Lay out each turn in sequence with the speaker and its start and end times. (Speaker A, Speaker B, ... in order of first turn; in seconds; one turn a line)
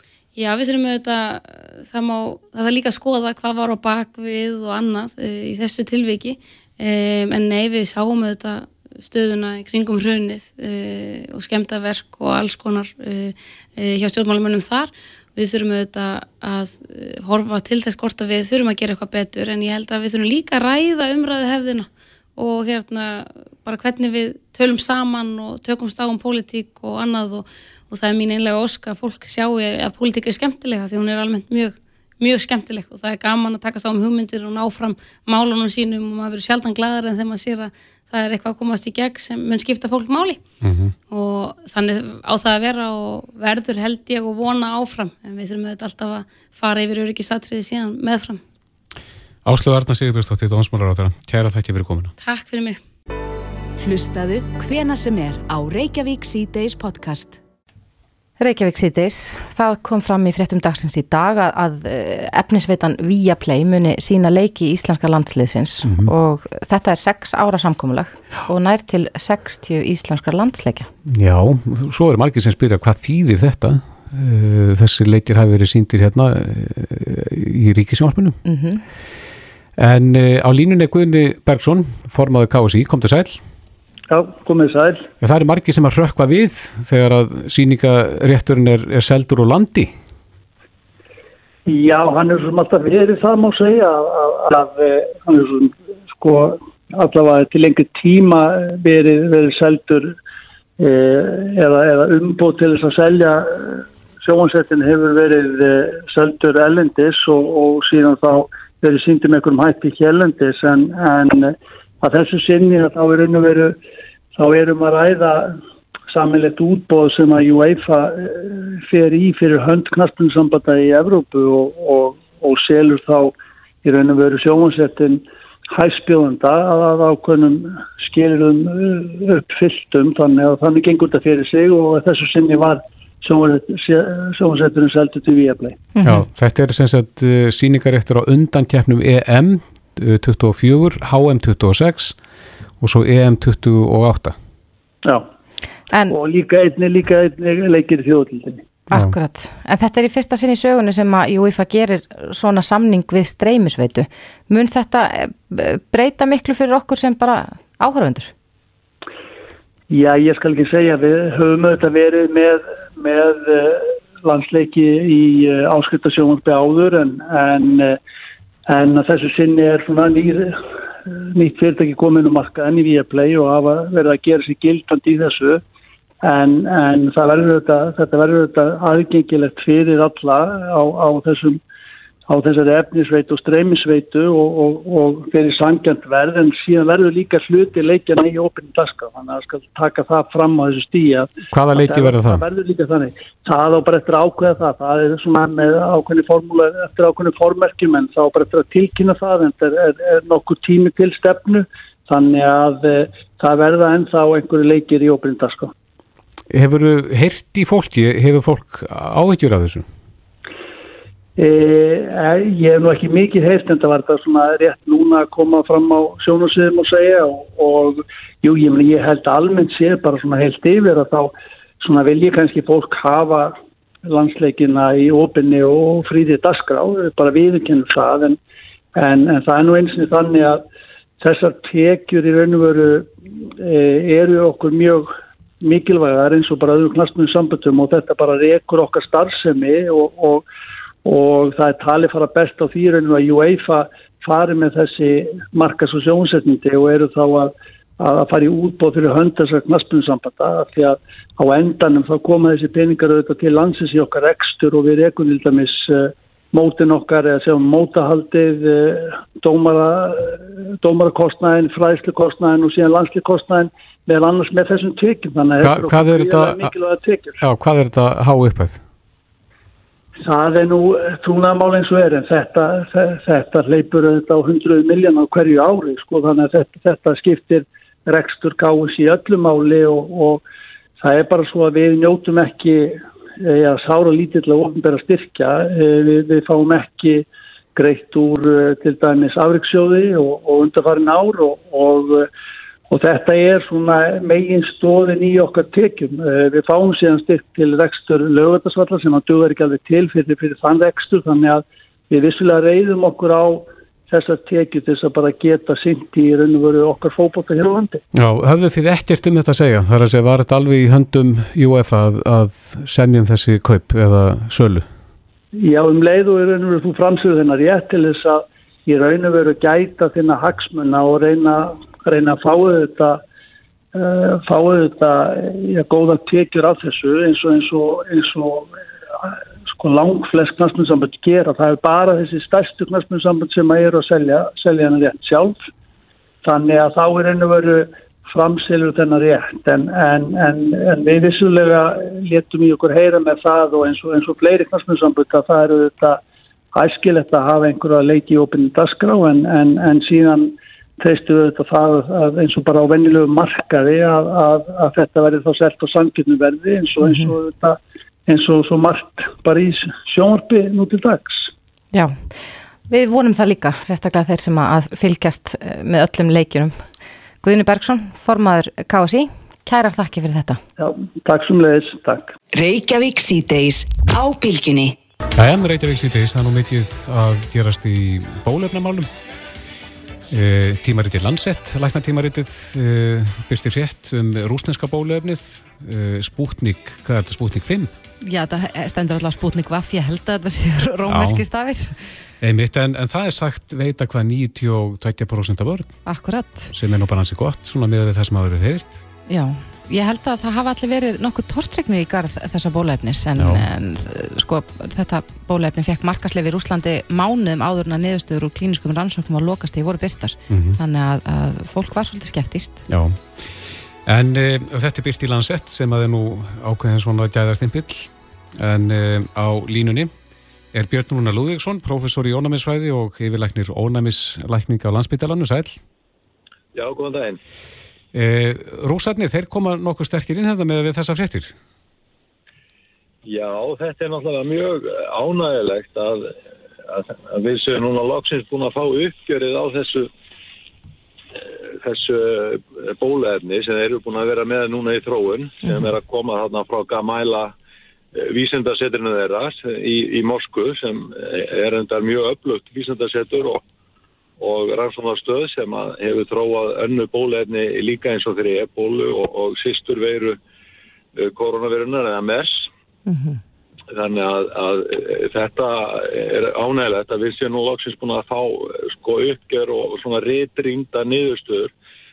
Speaker A: 0.3-40.4
Speaker B: 40.6-40.9
Speaker A: 41.1-48.4
Speaker B: 49.4-52.1
Speaker A: 52.2-52.8
Speaker C: 53.8-57.4
Speaker D: 58.4-70.9
Speaker B: 65.8-66.1
Speaker B: 71.1-78.4
Speaker D: 78.4-78.8
Speaker B: 79.8-83.4
Speaker E: 84.1-85.1
Speaker B: 85.2-89.9
Speaker E: 91.7-100.1
Speaker E: 100.8-113.8
Speaker E: 114.3-115.5
Speaker E: 116.1-125.2
Speaker E: 125.7-135.8
Speaker D: 135.9-136.2
Speaker B: 136.0-142.2
Speaker B: 142.8-144.3
Speaker E: 146.1-148.6
Speaker D: 148.9-158.3
Speaker E: 159.9-168.0
Speaker E: 168.7-170.6
Speaker E: 171.3-175.6
Speaker E: 176.2-181.6
Speaker E: 182.3-205.7
Speaker B: 191.5-192.4
Speaker B: 206.5-209.8
Speaker E: 211.4-223.5
Speaker E: 224.1-228.4
Speaker E: 228.9-230.6
Speaker E: 231.2-235.1
Speaker E: 235.6-240.4
Speaker E: 241.0-267.4
Speaker B: 265.6-266.7
Speaker B: 267.4-268.8
Speaker E: 270.2-280.4
Speaker E: 281.0-292.3
Speaker E: 292.9-308.0
Speaker B: 308.1-314.9
Speaker E: 315.6-323.2
Speaker E: 323.9-328.7
Speaker E: 329.2-335.6
Speaker E: 336.4-346.2
Speaker E: 346.7-361.5
Speaker D: 357.0-357.3
Speaker D: 361.9-366.8
Speaker D: 367.4-370.6
Speaker E: 370.8-372.3
Speaker C: 372.5-374.9
Speaker B: 375.3-379.1
Speaker B: 380.3-387.9
Speaker D: 388.2-391.9
Speaker B: 391.1-391.4
Speaker B: 392.4-395.9
Speaker D: 396.1-396.7
Speaker B: 396.7-399.0
Speaker D: 399.3-412.8
Speaker B: 403.4-403.6
Speaker B: 410.5-410.8
Speaker B: 412.9-413.5
Speaker B: 414.1-420.1
Speaker B: 420.7-425.8
Speaker F: 426.7-427.4
Speaker B: 428.1-431.5
Speaker F: 433.2-436.3
Speaker F: 436.9-440.1
Speaker F: 441.8-447.5
Speaker F: 448.1-453.6
Speaker F: 454.4-460.4
Speaker F: 461.2-462.7
Speaker D: 463.1-463.4
Speaker F: 463.9-471.7